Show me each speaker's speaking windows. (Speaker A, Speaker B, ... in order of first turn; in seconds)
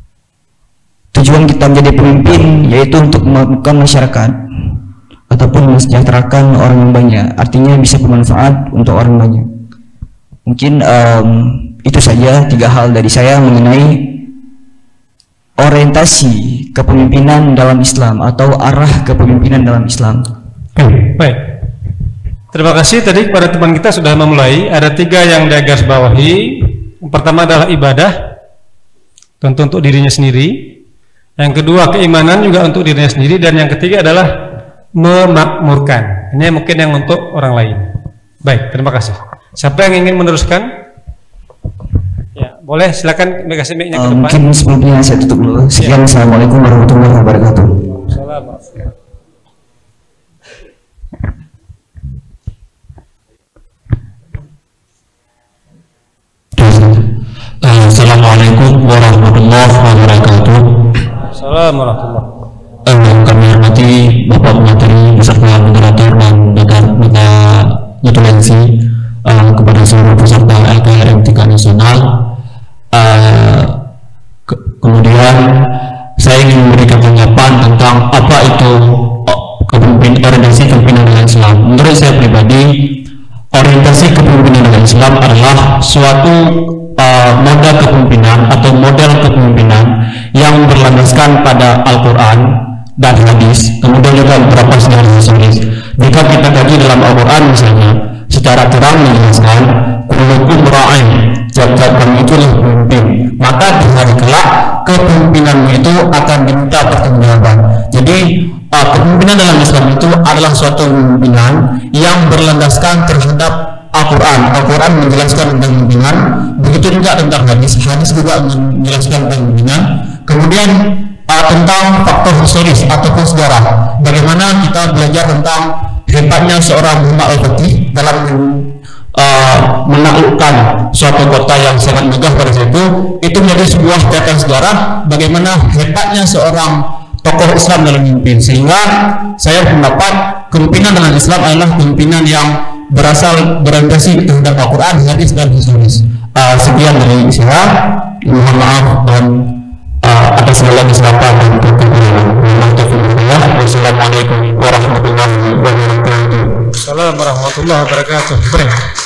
Speaker A: 1.1-4.7, 5.3-9.5, 10.4-14.2, 15.6-20.2, 43.9-47.8
Speaker B: 20.8-21.4, 22.5-28.1, 29.4-30.5, 31.4-34.3, 35.0-37.9, 38.5-40.7, 42.4-44.4, 47.9-48.8, 61.3-62.3, 156.8-158.8
Speaker C: 56.5-57.1, 57.6-60.8, 62.9-72.2, 72.9-73.8, 74.5-75.7, 76.2-83.0, 83.5-149.5, 150.0-156.6